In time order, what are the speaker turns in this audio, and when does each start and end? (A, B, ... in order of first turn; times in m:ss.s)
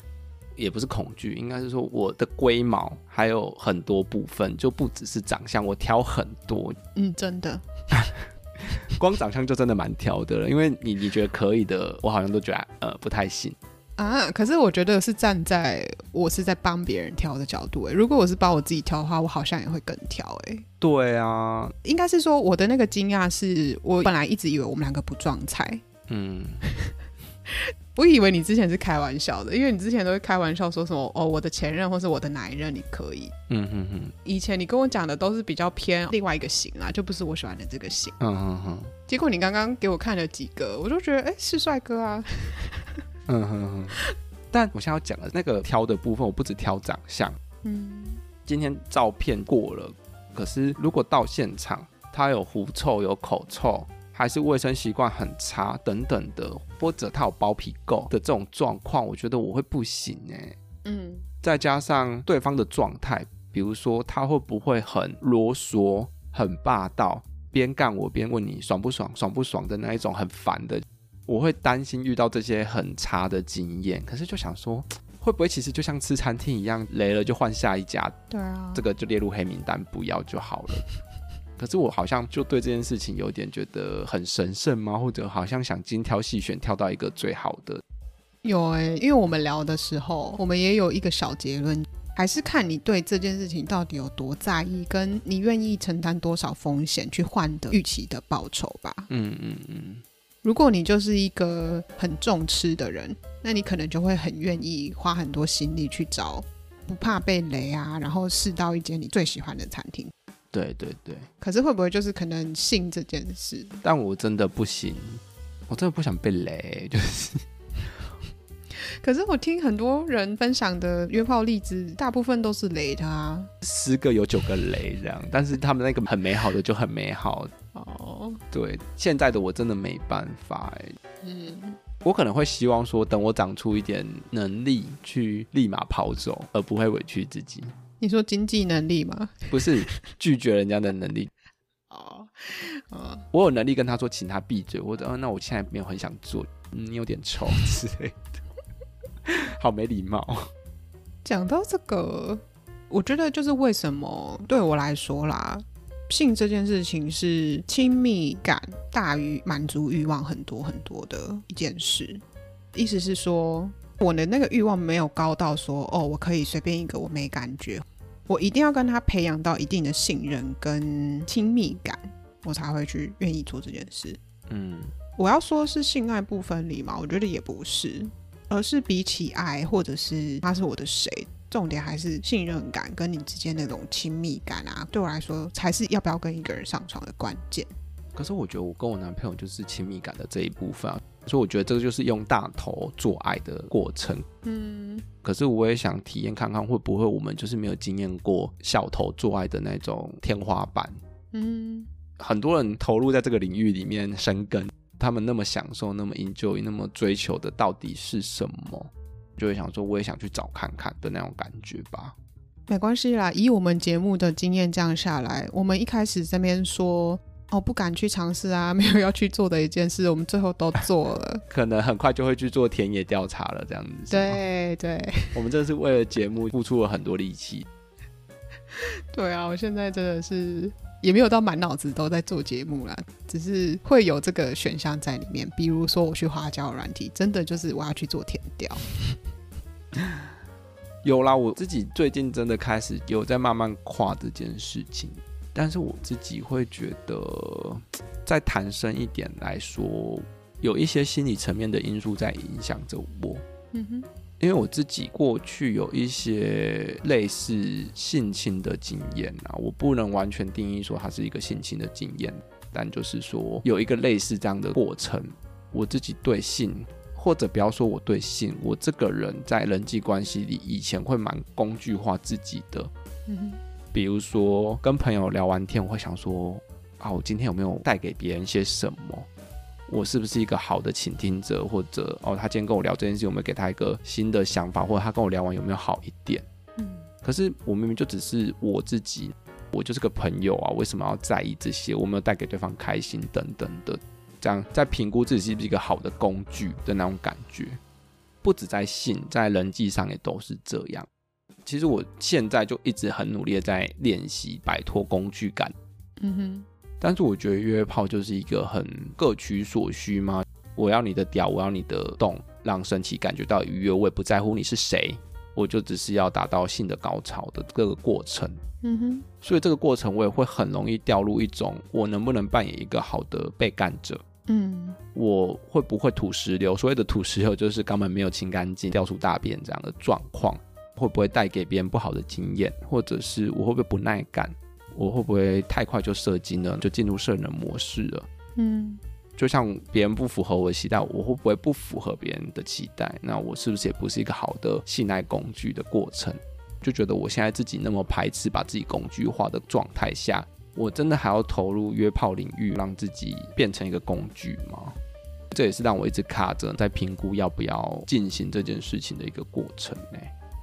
0:00.6-0:06.8 A
0:07.0-0:07.6 B
0:07.9-0:13.6 A
0:14.0-0:20.6 B
0:20.8-0:21.7 A
0:21.8-0:25.8 B
0:26.1-0:26.7 A
0:26.7-0:26.9 B
0:27.5-0:33.3 B
0:33.5-0:34.2 A
0:34.2-0:38.2 B
0:38.2-0:38.9 A
0:39.1-0:43.0 B
0:43.3-0:44.0 A
0:44.5-0:47.4 A
0:47.6-0:48.2 B
0:48.5-1:00.6 A
1:00.8-1:01.2 B
1:01.4-1:18.2 A
1:18.3-1:18.8 B
1:18.7-1:20.9 A
1:21.6-1:27.8 A
1:28.4-1:39.1 B
1:39.1-1:40.0 A
1:40.4-1:50.1 B
1:50.5-1:51.3 A
1:51.4-1:53.8 B
1:53.8-1:57.4 A
1:58.8-2:03.5 B
2:03.6-2:07.5 A
2:07.7-2:08.4 B
2:08.5-2:11.0 A
2:11.2-2:11.8 B
2:12.0-2:17.8 A
2:18.0-2:20.0 B
2:19.5-2:21.3 A
2:21.9-2:23.3 B
2:23.3-2:28.4 A
2:29.3-2:30.5 A
2:31.2-2:42.2 B
2:42.7-2:54.2 B
2:54.5-2:55.0 A
2:55.2-3:07.7 B
3:08.1-3:14.3 A
3:14.4-3:15.0 B
3:15.2-3:21.0 A
3:21.3-3:21.9 B
3:22.2-3:32.2 A
3:32.7-3:41.4 B
3:41.5-3:44.4 A
3:44.1-3:45.4 B
3:45.3-3:47.7 A
3:48.7-3:58.9 B
4:01.0-4:13.4 A
4:13.7-4:14.1 B
4:14.4-4:32.9 A
4:33.3-4:33.6 B
4:33.9-4:39.3 A
4:39.9-4:46.5 A
4:46.8-4:47.1 B
4:47.2-4:57.8 A
4:58.4-5:01.1 A
5:01.7-5:05.7 A
5:06.2-5:06.7 B
5:07.0-5:18.6 A
5:18.8-5:19.3 B
5:19.4-5:24.2 A
5:24.5-5:25.0 B
5:25.2-5:38.3 A
5:38.6-5:39.0 B
5:39.4-5:55.0 A
5:55.5-6:00.3 A